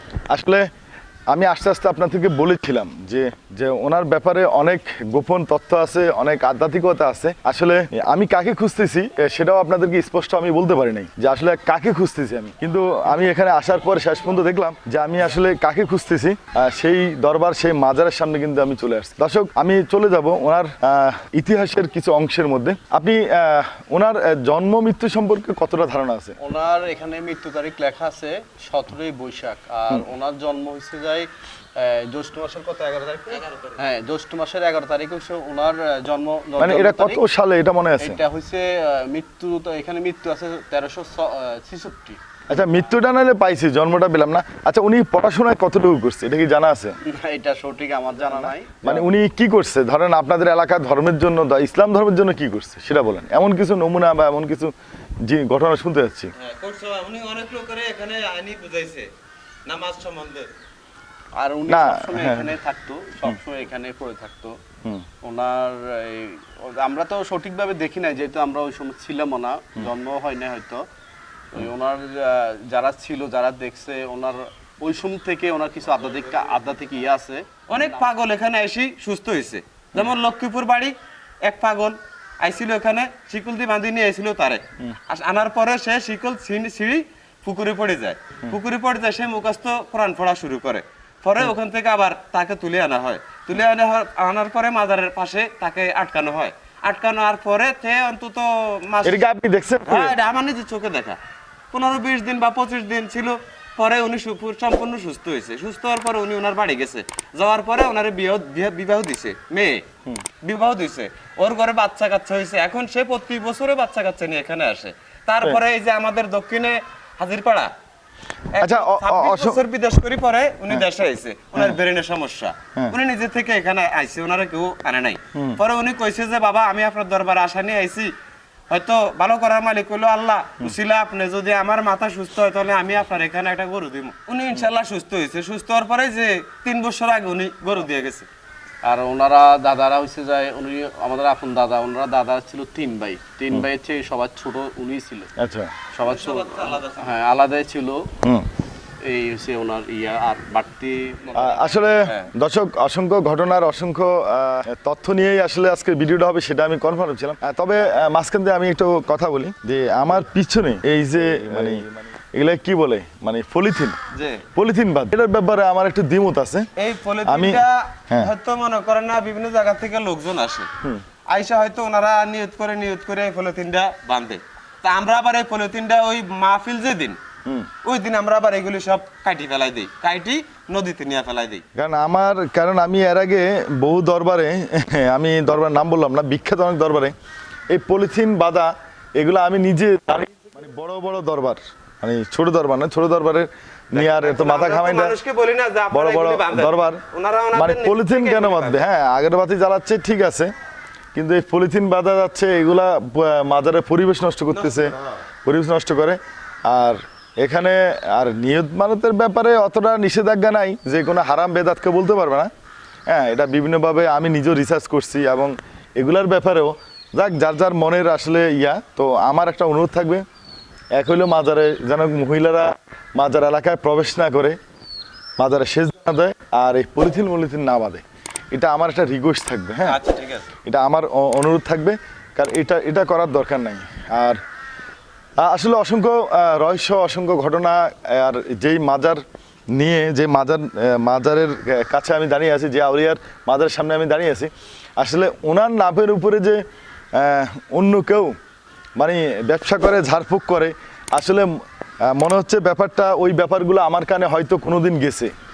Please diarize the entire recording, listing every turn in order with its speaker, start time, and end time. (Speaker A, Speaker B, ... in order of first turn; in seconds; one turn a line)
Speaker A: 0.3-0.7
Speaker A: 1.3-26.4
Speaker B: 26.4-37.2
Speaker A: 36.6-38.2
Speaker B: 38.0-42.2
Speaker A: 42.5-47.0
Speaker B: 47.0-49.1
Speaker A: 48.3-54.7
Speaker A: 55.2-56.3
Speaker C: 56.4-59.1
Speaker C: 59.6-60.5
Speaker B: 61.3-64.6
Speaker A: 61.7-62.5
Speaker B: 65.2-70.8
Speaker B: 71.5-78.1
Speaker C: 77.7-80.9
Speaker C: 81.4-99.2
Speaker A: 99.0-100.1
Speaker C: 99.8-101.2
Speaker C: 101.7-109.8
Speaker C: 110.4-117.7
Speaker C: 118.5-128.1
Speaker A: 118.6-119.6
Speaker C: 128.7-138.3
Speaker B: 138.8-145.3
Speaker A: 145.4-145.7
Speaker B: 145.9-148.1
Speaker C: 146.0-147.1
Speaker B: 149.0-151.8
Speaker A: 151.3-164.0
Speaker C: 164.1-164.4
Speaker A: 164.5-166.7
Speaker C: 166.8-170.7
Speaker A: 167.2-168.3
Speaker C: 171.3-177.2
Speaker C: 177.8-181.6
Speaker A: 181.7-187.1
Speaker A: 187.7-195.2
Speaker C: 193.9-198.8
Speaker A: 195.9-197.0
Speaker A: 197.5-200.5
Speaker A: 201.1-212.5
Speaker C: 204.5-205.0
Speaker A: 213.1-220.2
Speaker A: 220.9-224.6
Speaker A: 225.4-230.0
Speaker C: 229.8-230.5
Speaker A: 230.6-234.4
Speaker A: 235.4-239.2
Speaker A: 239.7-246.6
Speaker A: 247.1-248.4
Speaker A: 249.0-251.5
Speaker A: 252.1-255.3